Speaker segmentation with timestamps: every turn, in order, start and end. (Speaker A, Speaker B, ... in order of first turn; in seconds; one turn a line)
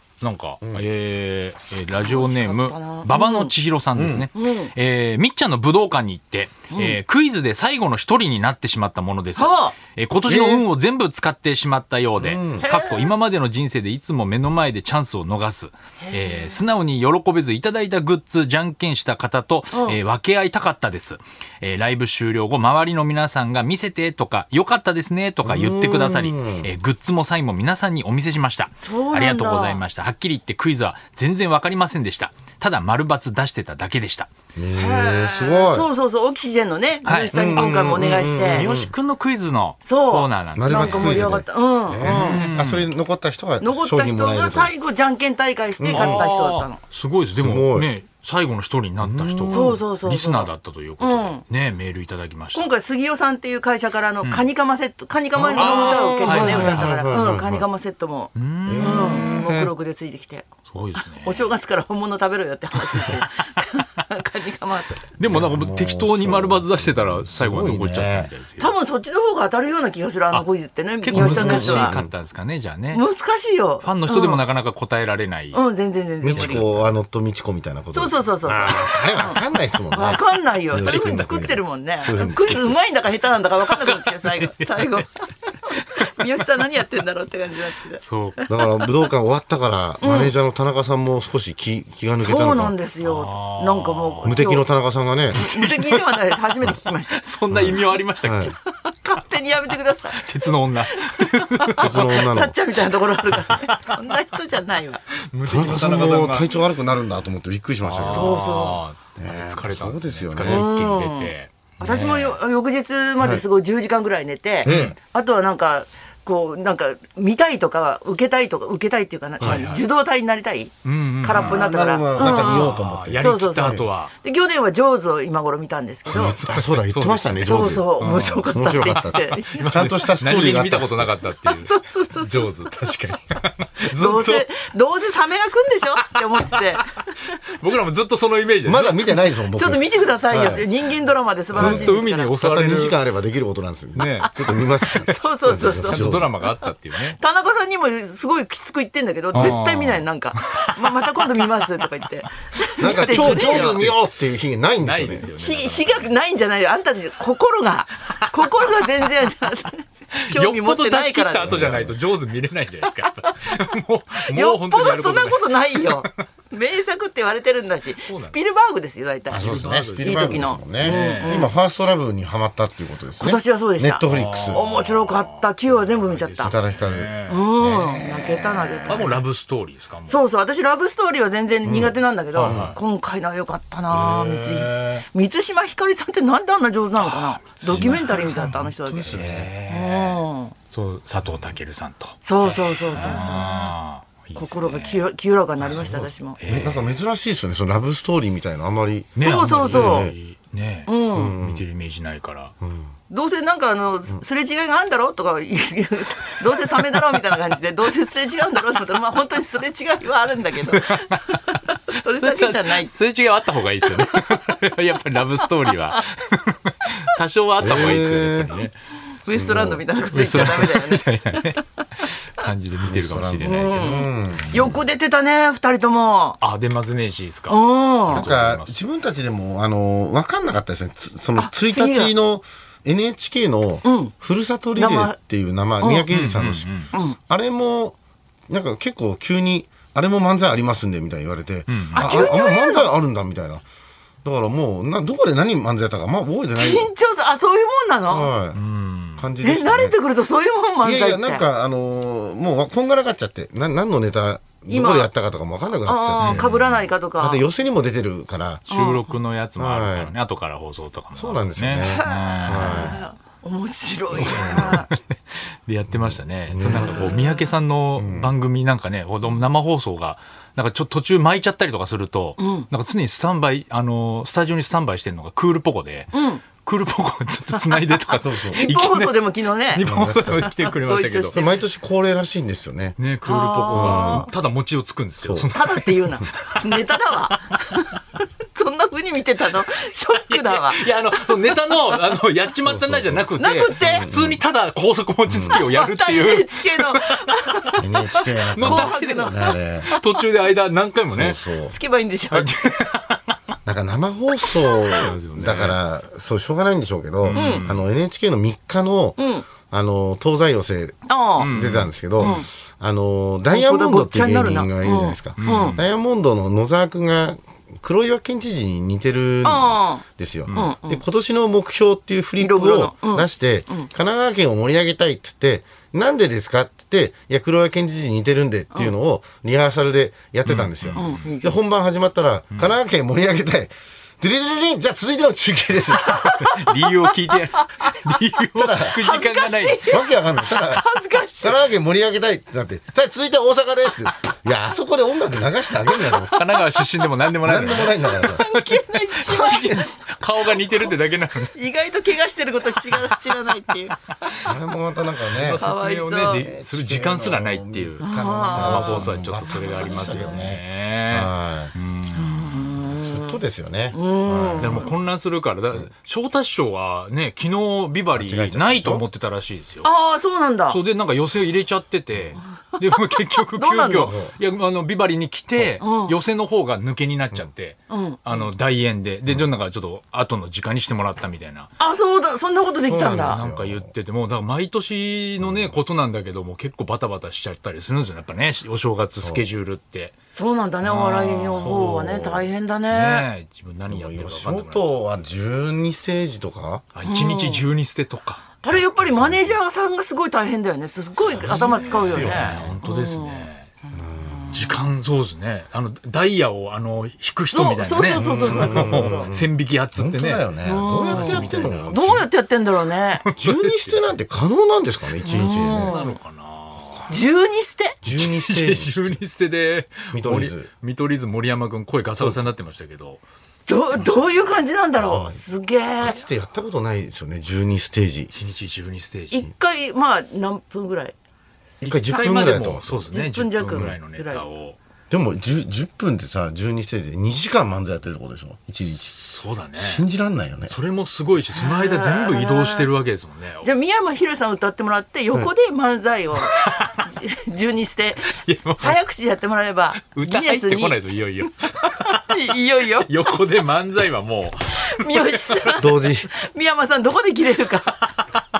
Speaker A: 0.2-34.3
Speaker B: 1.9-3.5
Speaker C: 3.9-4.3
Speaker B: 4.3-4.7
Speaker B: 6.7-7.0
Speaker B: 9.3-9.7
Speaker C: 10.2-10.7
Speaker C: 12.2-12.7
Speaker B: 12.6-13.1
Speaker B: 16.0-16.6
Speaker B: 19.7-20.0
Speaker C: 25.4-26.7
Speaker B: 28.8-29.8
Speaker C: 34.5-35.9
Speaker B: 34.7-38.7
Speaker A: 37.0-41.3
Speaker C: 37.3-38.9
Speaker B: 39.8-42.5
Speaker C: 40.5-44.7
Speaker A: 42.0-42.9
Speaker B: 43.6-46.8
Speaker C: 45.8-46.2
Speaker A: 45.9-52.7
Speaker C: 47.4-47.9
Speaker C: 49.0-49.8
Speaker B: 49.5-51.4
Speaker B: 52.5-65.1
Speaker C: 55.3-57.6
Speaker A: 55.5-57.1
Speaker A: 58.3-59.3
Speaker C: 58.6-59.7
Speaker A: 60.7-61.5
Speaker A: 62.7-64.0
Speaker A: 65.2-68.8
Speaker C: 65.2-68.3
Speaker B: 68.6-72.0
Speaker A: 71.0-73.0
Speaker C: 71.1-72.1
Speaker B: 72.9-74.4
Speaker A: 73.8-75.6
Speaker B: 75.5-76.7
Speaker C: 76.2-82.8
Speaker A: 76.2-76.9
Speaker B: 77.9-89.1
Speaker A: 83.6-85.0
Speaker A: 85.7-86.0
Speaker A: 88.0-88.4
Speaker C: 88.5-92.7
Speaker B: 90.0-90.3
Speaker B: 92.2-94.7
Speaker A: 93.0-94.5
Speaker C: 94.2-95.5
Speaker B: 95.3-97.2
Speaker A: 95.4-98.6
Speaker C: 97.5-98.5
Speaker B: 98.7-105.0
Speaker A: 100.1-102.3
Speaker C: 101.8-102.5
Speaker A: 103.3-104.1
Speaker A: 105.2-106.5
Speaker C: 105.4-108.5
Speaker A: 107.8-112.4
Speaker B: 108.0-108.8
Speaker C: 109.2-110.6
Speaker B: 110.5-126.4
Speaker A: 114.6-115.0
Speaker C: 114.7-115.0
Speaker A: 119.4-119.8
Speaker A: 120.8-121.6
Speaker C: 121.3-123.9
Speaker A: 122.2-124.1
Speaker C: 126.1-131.2
Speaker A: 126.1-134.5
Speaker B: 127.4-129.7
Speaker B: 131.5-132.9
Speaker B: 133.8-137.3
Speaker A: 136.1-136.8
Speaker A: 137.6-139.1
Speaker C: 138.6-140.7
Speaker B: 139.5-142.3
Speaker A: 141.5-143.0
Speaker C: 141.5-146.3
Speaker A: 143.9-144.4
Speaker B: 144.9-153.8
Speaker A: 145.0-147.2
Speaker A: 149.3-151.2
Speaker C: 152.8-155.3
Speaker A: 152.8-154.0
Speaker A: 154.8-156.1
Speaker B: 155.3-161.8
Speaker A: 160.2-166.2
Speaker C: 161.4-162.0
Speaker B: 162.8-163.7
Speaker B: 164.2-169.4
Speaker A: 168.0-168.4
Speaker A: 169.3-171.5
Speaker C: 169.3-174.6
Speaker B: 170.0-171.5
Speaker B: 173.2-176.6
Speaker A: 174.0-180.2
Speaker C: 176.4-178.0
Speaker B: 177.3-179.2
Speaker B: 180.1-189.1
Speaker C: 181.6-182.7
Speaker A: 182.3-182.8
Speaker A: 183.9-185.1
Speaker A: 187.0-195.1
Speaker C: 187.6-189.5
Speaker B: 189.7-190.5
Speaker B: 192.2-193.7
Speaker B: 194.3-196.4
Speaker C: 195.6-200.1
Speaker A: 196.4-197.0
Speaker A: 199.2-202.5
Speaker B: 199.2-200.1
Speaker B: 200.9-201.3
Speaker C: 201.1-201.6
Speaker C: 202.6-202.9
Speaker B: 203.1-212.9
Speaker A: 210.7-211.6
Speaker A: 212.2-218.7
Speaker C: 217.6-218.5
Speaker B: 219.2-221.6
Speaker C: 219.3-219.8
Speaker A: 220.1-223.7
Speaker C: 222.8-224.8
Speaker B: 223.4-226.4
Speaker A: 226.4-228.8
Speaker B: 227.5-228.3
Speaker C: 228.1-236.8
Speaker B: 231.3-232.1
Speaker B: 233.8-234.1
Speaker B: 234.7-235.2
Speaker B: 235.8-236.1
Speaker A: 236.1-236.9
Speaker B: 236.9-237.2
Speaker C: 237.3-238.0
Speaker C: 238.5-243.6
Speaker A: 241.7-242.2
Speaker B: 241.9-242.9
Speaker C: 244.2-246.9
Speaker B: 246.6-248.3
Speaker C: 248.1-248.6
Speaker A: 248.5-249.3
Speaker C: 249.2-250.0
Speaker B: 249.4-251.5
Speaker C: 250.8-258.7
Speaker B: 254.7-255.1
Speaker B: 255.8-257.4
Speaker A: 256.2-256.6
Speaker A: 258.7-263.0
Speaker B: 258.7-259.1
Speaker C: 259.6-260.1
Speaker C: 261.1-263.0
Speaker B: 261.8-264.9
Speaker A: 264.1-281.4
Speaker C: 264.2-264.8
Speaker C: 265.9-267.2
Speaker B: 266.6-267.5
Speaker C: 268.0-268.3
Speaker B: 272.4-272.7
Speaker B: 276.1-276.4
Speaker B: 277.5-281.5
Speaker C: 278.2-278.6
Speaker C: 279.8-280.5
Speaker C: 281.3-282.9
Speaker A: 283.0-287.3
Speaker B: 283.2-284.3
Speaker C: 283.7-284.3
Speaker C: 285.2-285.5
Speaker B: 285.5-291.5
Speaker A: 290.2-297.8
Speaker C: 292.6-293.3
Speaker B: 293.4-294.1
Speaker C: 293.8-294.4
Speaker C: 295.3-295.6
Speaker B: 295.5-297.8
Speaker C: 297.8-299.9
Speaker A: 298.5-301.4
Speaker B: 298.6-300.2
Speaker C: 301.1-301.8
Speaker B: 301.7-302.5
Speaker A: 302.3-303.4
Speaker C: 303.6-336.2
Speaker A: 304.4-305.8
Speaker A: 307.2-307.9
Speaker B: 307.4-307.7
Speaker B: 309.2-309.5
Speaker B: 311.1-311.5
Speaker A: 311.4-312.4
Speaker B: 312.2-312.5
Speaker B: 313.5-315.8
Speaker A: 315.4-315.8
Speaker B: 319.4-321.0
Speaker A: 320.5-320.7
Speaker B: 322.4-323.9
Speaker A: 330.4-331.2
Speaker B: 330.9-331.6
Speaker B: 336.1-337.9
Speaker A: 336.2-339.8
Speaker C: 338.5-339.0
Speaker B: 339.0-341.7
Speaker C: 339.9-340.8
Speaker C: 341.4-346.3
Speaker A: 346.0-351.5
Speaker C: 347.4-348.5
Speaker B: 348.1-349.9
Speaker C: 349.2-349.9
Speaker B: 350.5-354.1
Speaker C: 354.4-355.6
Speaker A: 355.2-362.8
Speaker B: 355.6-356.5
Speaker C: 356.3-361.7
Speaker B: 358.0-360.4
Speaker B: 362.1-363.4
Speaker C: 362.8-364.9
Speaker B: 363.9-364.9
Speaker A: 364.6-369.9
Speaker C: 368.1-369.1
Speaker B: 369.8-370.8
Speaker A: 370.7-381.7
Speaker B: 372.8-374.1
Speaker C: 374.0-374.3
Speaker B: 375.8-376.1
Speaker B: 377.9-378.5
Speaker B: 381.8-383.4
Speaker C: 382.9-383.9
Speaker A: 383.2-390.1
Speaker C: 385.4-385.7
Speaker C: 389.2-389.4
Speaker B: 390.3-393.3
Speaker A: 390.8-392.2
Speaker C: 391.6-392.5
Speaker A: 392.9-394.9
Speaker C: 393.9-396.9
Speaker A: 396.9-398.6
Speaker B: 397.1-397.6
Speaker B: 398.6-404.8
Speaker C: 399.0-399.5
Speaker A: 401.3-403.7
Speaker C: 401.3-402.8
Speaker C: 403.9-404.5
Speaker A: 404.5-412.2
Speaker B: 407.5-409.3
Speaker C: 408.1-412.2
Speaker B: 410.6-413.2
Speaker A: 413.2-414.1
Speaker C: 413.4-416.0
Speaker B: 415.2-416.1
Speaker A: 415.3-417.1
Speaker C: 416.7-417.1
Speaker B: 417.1-418.0
Speaker C: 418.0-419.2
Speaker A: 418.1-423.2
Speaker C: 420.1-420.7
Speaker C: 422.2-422.5
Speaker B: 423.7-426.2
Speaker C: 425.0-425.4
Speaker C: 426.0-428.3
Speaker A: 428.3-429.5
Speaker B: 429.3-431.1
Speaker A: 431.8-434.8
Speaker C: 431.8-433.1
Speaker B: 431.8-432.4
Speaker B: 433.1-434.4
Speaker C: 435.1-439.1
Speaker A: 439.0-440.1
Speaker C: 439.7-440.8
Speaker A: 440.7-443.7
Speaker B: 441.5-442.9
Speaker B: 443.6-453.4
Speaker A: 446.4-447.0
Speaker A: 448.4-449.0
Speaker A: 450.0-452.4
Speaker A: 453.0-455.8
Speaker B: 454.8-458.2
Speaker C: 455.8-456.3